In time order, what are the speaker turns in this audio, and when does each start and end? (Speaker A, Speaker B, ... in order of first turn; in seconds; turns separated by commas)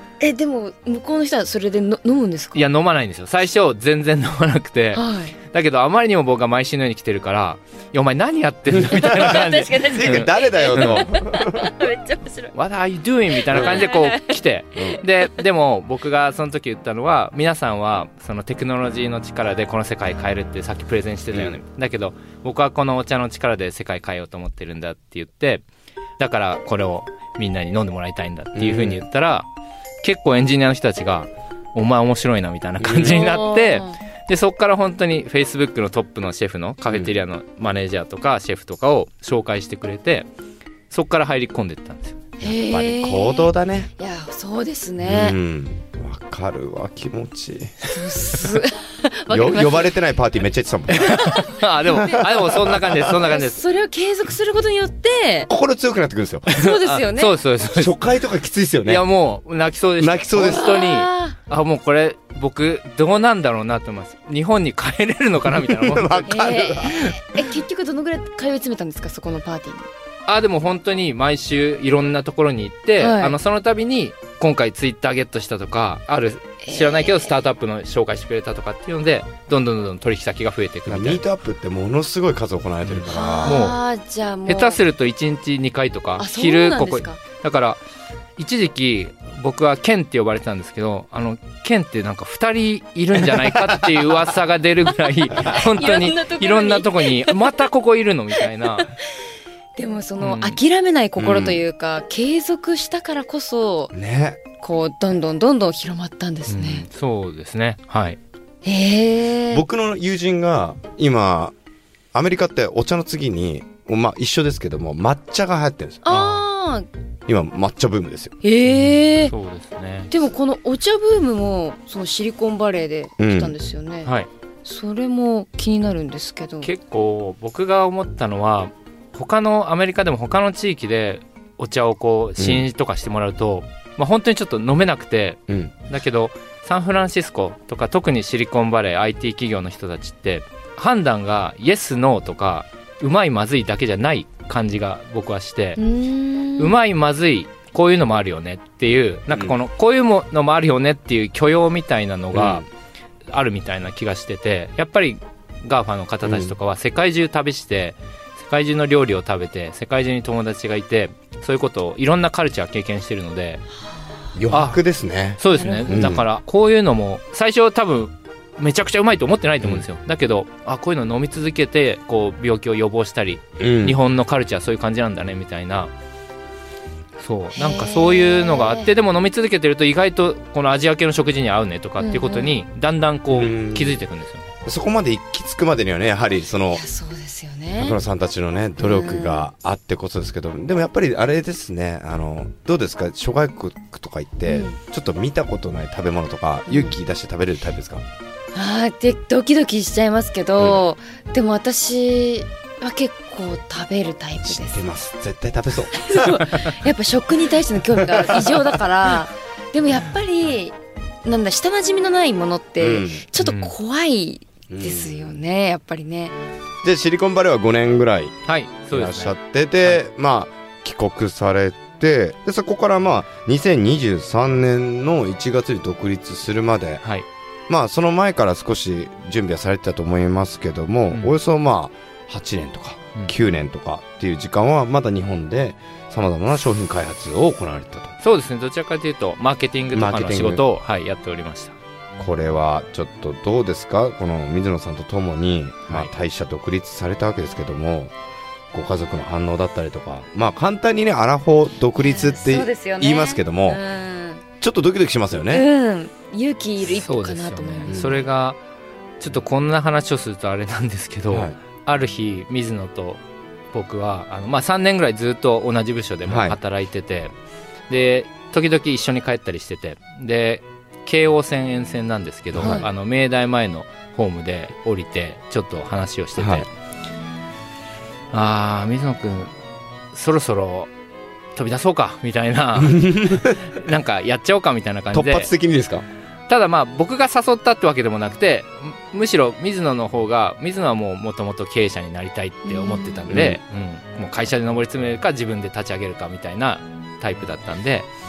Speaker A: 0.2-2.6, Speaker B: 2.5-11.1, Speaker A: 4.9-5.3, Speaker C: 8.7-11.7, Speaker A: 9.0-12.5, Speaker B: 12.5-25.6, Speaker C: 13.5-13.8, Speaker A: 13.5-14.4, Speaker C: 14.7-15.0, Speaker C: 21.3-21.6, Speaker B: 26.2-29.5, Speaker C: 28.5-29.0, Speaker B: 30.0-40.3, Speaker C: 32.8-33.2, Speaker A: 33.0-34.0, Speaker C: 36.9-37.1, Speaker B: 40.9-42.3, Speaker C: 42.4-43.9, Speaker A: 42.4-45.4, Speaker C: 45.0-48.0, Speaker A: 47.9-50.0, Speaker C: 49.3-53.2, Speaker B: 50.9-53.6, Speaker A: 51.1-55.5, Speaker C: 55.5-56.8, Speaker A: 56.5-57.3, Speaker B: 56.8-57.9, Speaker C: 57.7-59.0, Speaker B: 58.9-67.1, Speaker C: 60.0-60.8, Speaker A: 60.4-61.4, Speaker C: 65.5-67.1, Speaker A: 66.3-69.9, Speaker B: 70.2-81.2, Speaker A: 73.0-73.3, Speaker A: 76.6-77.3, Speaker C: 80.9-83.7, Speaker B: 82.8-83.8, Speaker A: 83.1-84.8, Speaker B: 84.5-87.8, Speaker A: 86.2-87.2, Speaker B: 88.4-98.9, Speaker C: 93.3-94.1, Speaker A: 95.4-97.4, Speaker A: 98.3-99.1, Speaker A: 99.8-103.9, Speaker B: 100.2-100.6, Speaker C: 101.2-101.6, Speaker C: 103.9-104.4, Speaker A: 104.6-106.8, Speaker B: 106.5-108.2, Speaker A: 108.6-109.6, Speaker C: 109.5-111.5, Speaker C: 112.1-116.0, Speaker A: 116.0-116.9, Speaker B: 116.1-116.4, Speaker C: 117.3-118.3, Speaker A: 118.4-119.3, Speaker B: 118.6-120.2, Speaker A: 120.1-124.1, Speaker C: 123.2-123.5, Speaker B: 124.0-124.3, Speaker A: 124.6-126.7, Speaker B: 126.6-145.8, Speaker C: 132.4-132.6, Speaker C: 135.5-135.7, Speaker A: 145.8-146.8, Speaker B: 146.6-152.7, Speaker C: 149.3-149.6, Speaker C: 152.3-152.7, Speaker B: 153.3-163.6, Speaker C: 156.2-156.6, Speaker C: 164.3-166.2, Speaker B: 164.5-164.8, Speaker B: 165.4-175.9, Speaker A: 165.5-166.2, Speaker C: 173.6-174.0, Speaker B: 177.2-184.4, Speaker A: 177.5-178.9, Speaker A: 182.0-182.6, Speaker C: 183.3-184.0, Speaker C: 184.6-186.8, Speaker A: 186.7-188.0, Speaker C: 187.7-198.0, Speaker A: 188.8-189.5, Speaker A: 194.4-194.8, Speaker A: 196.7-196.9, Speaker A: 198.5-204.8, Speaker C: 200.6-200.8, Speaker C: 204.4-206.7, Speaker A: 205.9-216.3, Speaker C: 208.0-208.6, Speaker C: 212.8-213.3, Speaker B: 213.4-213.7, Speaker C: 214.7-215.3, Speaker C: 216.8-218.4, Speaker B: 218.4-220.0, Speaker C: 218.9-227.0, Speaker C: 227.7-238.1, Speaker B: 238.2-241.8, Speaker C: 239.9-240.6, Speaker C: 242.2-248.1, Speaker C: 248.7-253.8, Speaker A: 251.9-254.4, Speaker C: 254.6-255.7, Speaker A: 255.5-257.9, Speaker B: 256.8-258.6, Speaker C: 257.9-258.2, Speaker B: 259.2-263.2, Speaker C: 261.3-261.6, Speaker B: 263.7-267.3, Speaker C: 266.2-266.6, Speaker B: 267.9-276.7, Speaker C: 272.5-272.8, Speaker A: 272.6-272.9, Speaker C: 276.4-276.6, Speaker B: 278.3-279.5, Speaker B: 280.1-280.9, Speaker B: 281.5-285.5, Speaker C: 282.8-283.7, Speaker C: 285.1-286.1, Speaker B: 286.5-298.1, Speaker A: 292.6-293.3, Speaker C: 293.3-293.6